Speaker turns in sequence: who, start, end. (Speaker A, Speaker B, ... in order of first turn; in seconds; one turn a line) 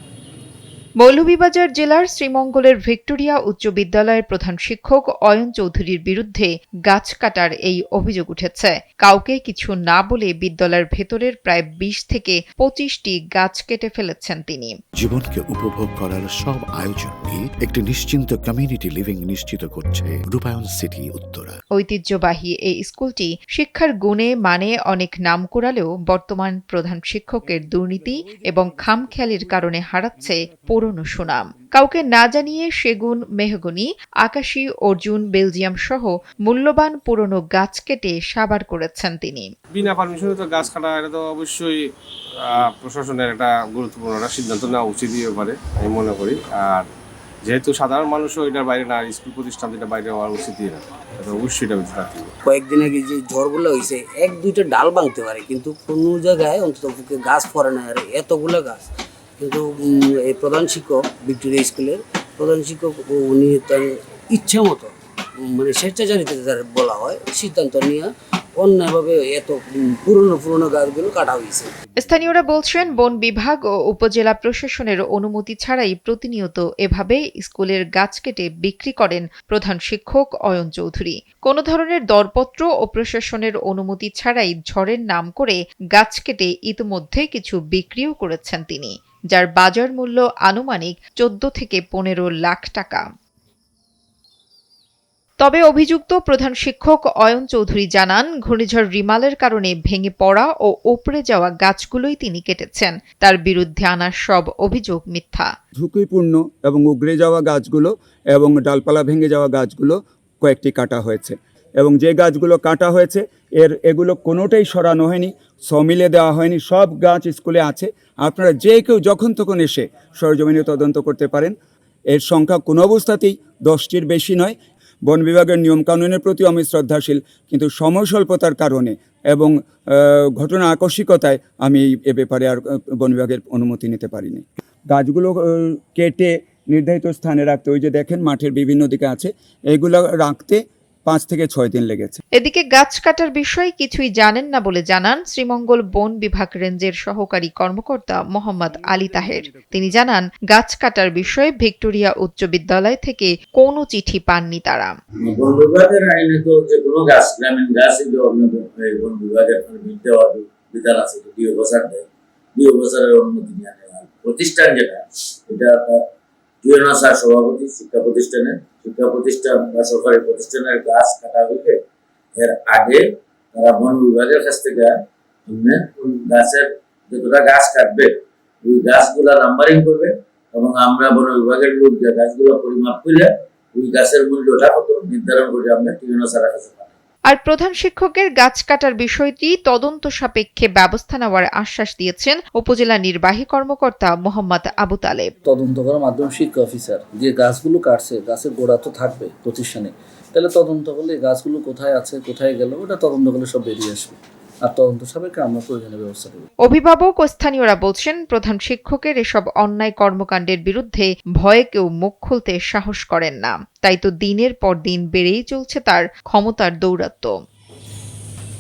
Speaker A: 1.0-14.8
Speaker B: 15.0-21.6
Speaker A: 21.8-39.5
Speaker C: 39.7-41.9
Speaker C: 42.4-46.9
Speaker C: 47.5-52.3
Speaker D: 52.5-58.8
Speaker D: 59.4-71.7
Speaker A: 72.0-93.0
Speaker A: 95.4-105.5
Speaker E: 105.8-121.5
Speaker E: 122.1-124.5
Speaker E: 125.1-142.2
Speaker A: 142.4-154.9
Speaker F: 155.2-166.0
Speaker F: 166.6-171.8
Speaker F: 172.4-173.0
Speaker F: 173.5-174.9
Speaker F: 175.5-178.1
Speaker F: 178.6-186.9
Speaker A: 187.3-195.3
Speaker G: 195.4-206.5
Speaker A: 206.6-217.3